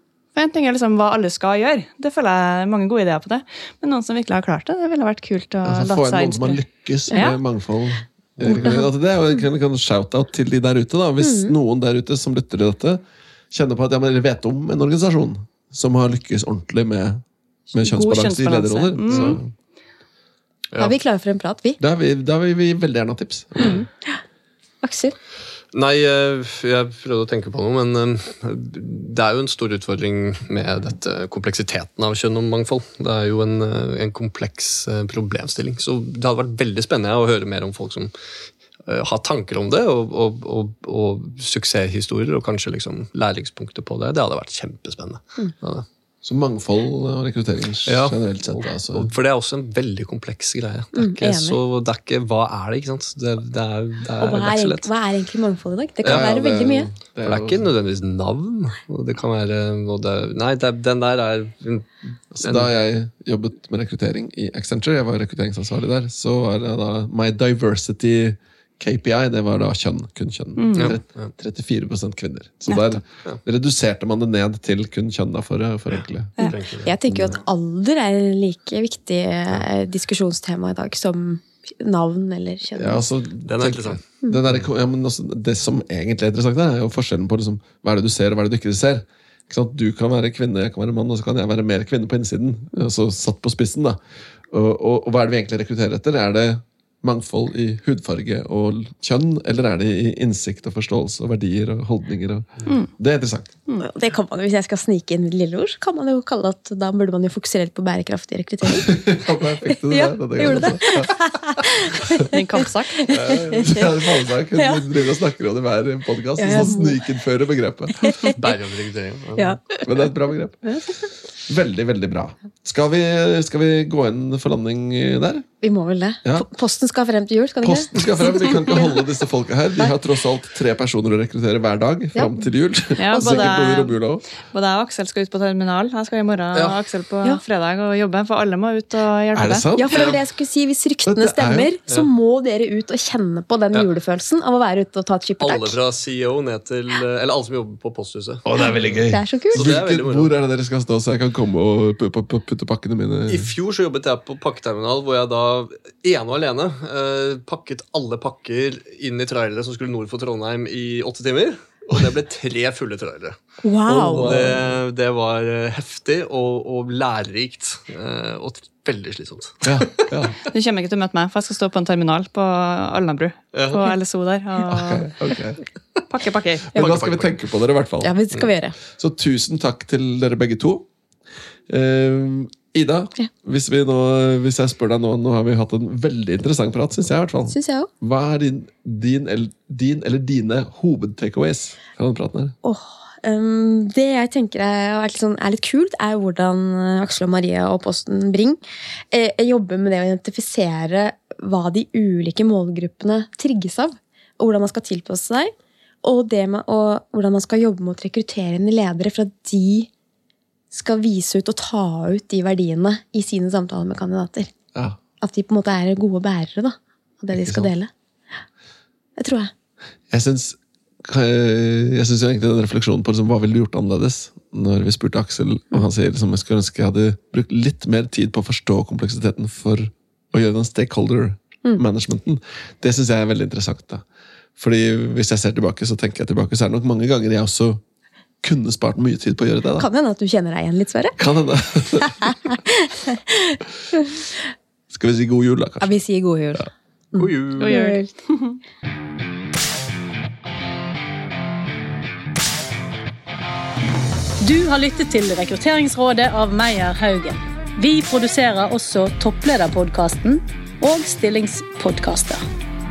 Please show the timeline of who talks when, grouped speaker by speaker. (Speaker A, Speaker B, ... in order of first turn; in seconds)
Speaker A: 0.3-7.4, 17.7-19.4, 70.5-70.9, 72.7-73.0, 112.3-113.0, 133.0-134.0, 134.5-139.7, 170.4-175.1, 176.1-176.8, 247.6-248.6
Speaker B: 5.6-19.5, 21.8-23.8, 46.2-49.1, 56.0-57.7, 62.4-76.3, 82.8-94.0, 94.5-103.5, 108.7-111.2, 113.1-118.3, 119.8-120.7, 121.5-125.5, 127.6-134.2, 139.3-140.0, 141.0-141.7, 148.4-153.5, 163.9-164.8, 169.6-170.4, 174.7-175.6, 176.7-178.2, 178.8-180.9, 181.7-192.6, 217.3-217.7, 220.1-234.0, 234.6-237.8, 238.4-239.9, 241.2-242.3, 244.9-246.0
Speaker C: 8.4-8.9, 11.2-11.5, 20.8-21.8, 23.6-24.2, 24.8-25.1, 50.9-51.6, 54.2-56.9, 76.8-83.1, 103.8-112.4, 112.9-114.0, 114.5-114.8, 116.4-117.0, 118.0-118.4, 119.3-119.8, 120.7-121.0, 125.6-129.1, 132.1-132.5, 133.1-133.6, 139.7-145.8, 148.6-149.7, 163.6-164.3, 178.0-178.7, 187.5-187.9, 192.6-198.6, 199.1-205.5, 206.0-209.9, 210.7-214.5, 215.2-217.9, 219.2-219.5, 239.8-241.2, 242.0-244.3, 245.8-248.1
Speaker D: 19.1-19.3, 25.7-38.1, 38.9-45.9, 47.9-54.9, 56.0-56.3, 57.2-62.7, 70.7-71.3, 75.9-77.4, 83.4-84.7, 113.1-113.8, 118.2-119.6, 139.9-140.2, 145.4-150.3, 153.3-170.1, 173.5-173.8, 176.7-177.3, 247.2-247.8
Speaker E: 254.4-262.4